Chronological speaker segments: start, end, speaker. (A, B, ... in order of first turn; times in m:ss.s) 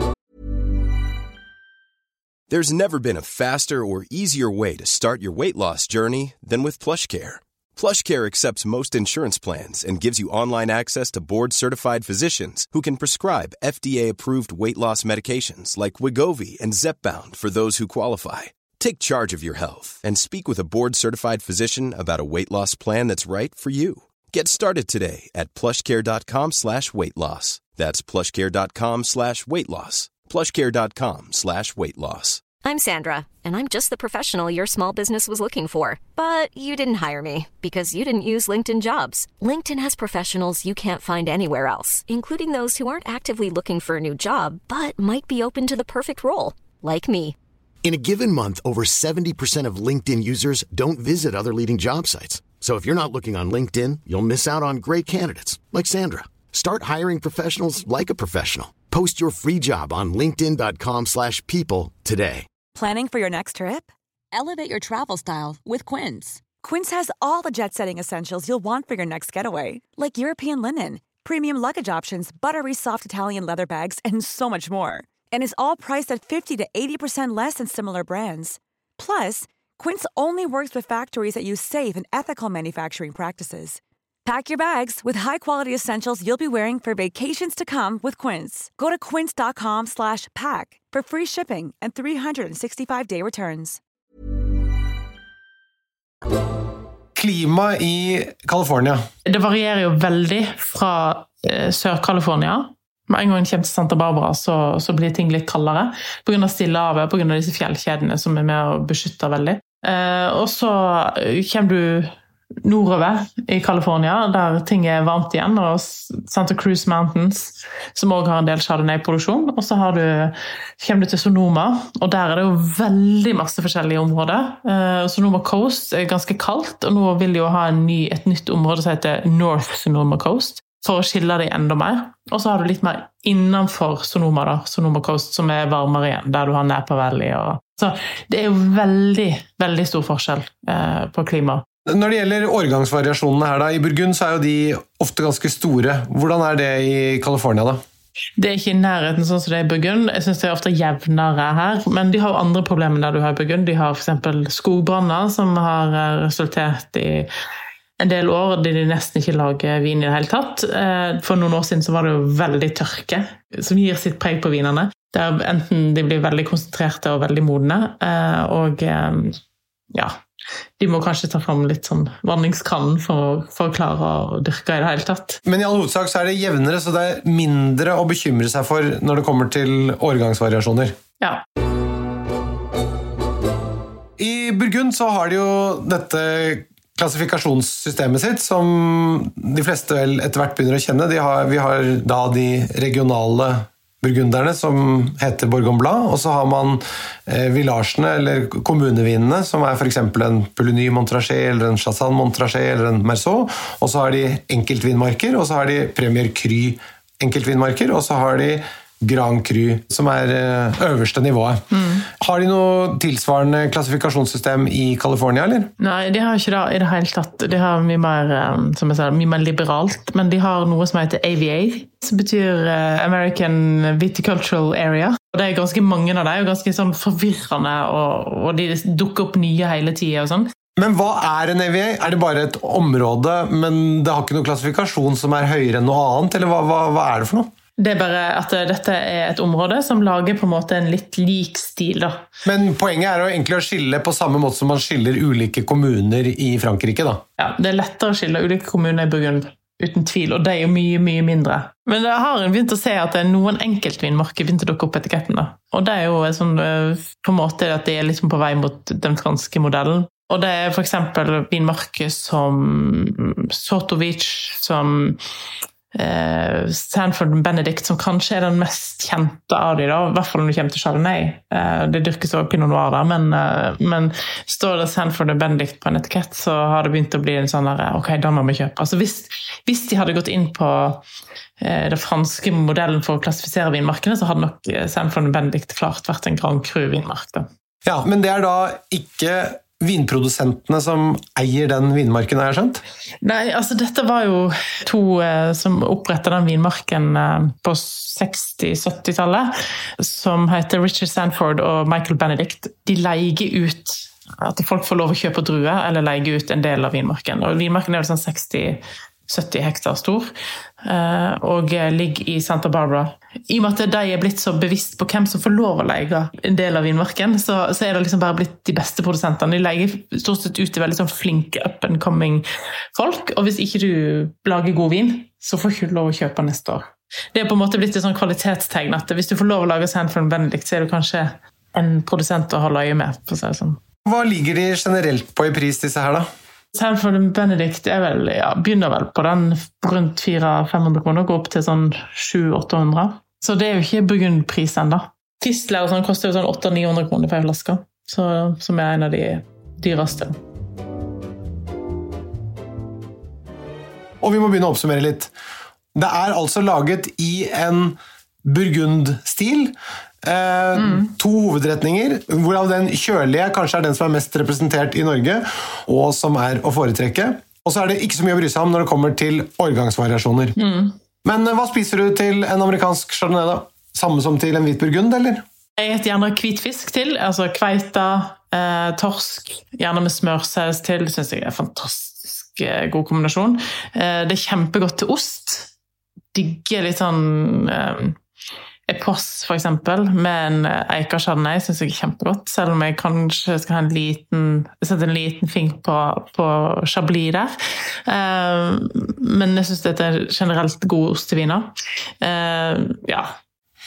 0:02.5-0:32.5 A
0:32.6-0:47.4 B
0:47.8-1:02.5 C
1:02.8-1:33.8 D
1:37.2-1:39.0 E
1:39.3-1:52.1 F
1:52.6-2:21.6 F
2:21.9-2:27.8 E
2:28.4-2:37.3 F
2:38.0-2:49.4 F
2:50.8-2:55.4 F
2:55.5-3:01.0 E
3:04.2-3:35.7 E
3:31.7-3:32.1 F
3:35.8-3:50.5 F
3:50.8-3:57.5 E
3:57.8-4:02.2 F
4:02.4-4:07.2 E
4:07.4-4:25.2 F
4:25.9-4:41.0 F
4:41.6-4:47.5 F
4:47.8-4:52.8 E
4:53.2-5:10.3 F
5:10.8-5:33.8 F
5:34.1-5:36.3 E
5:36.7-5:50.4 F
5:54.2-5:55.3 E
5:56.0-6:10.6 E
6:00.8-6:01.1 F
6:10.6-6:11.0 F
6:11.2-6:15.4 E
6:15.8-6:25.7 F
6:26.3-6:28.2 F
6:28.9-6:37.5 F
6:38.1-6:43.3 F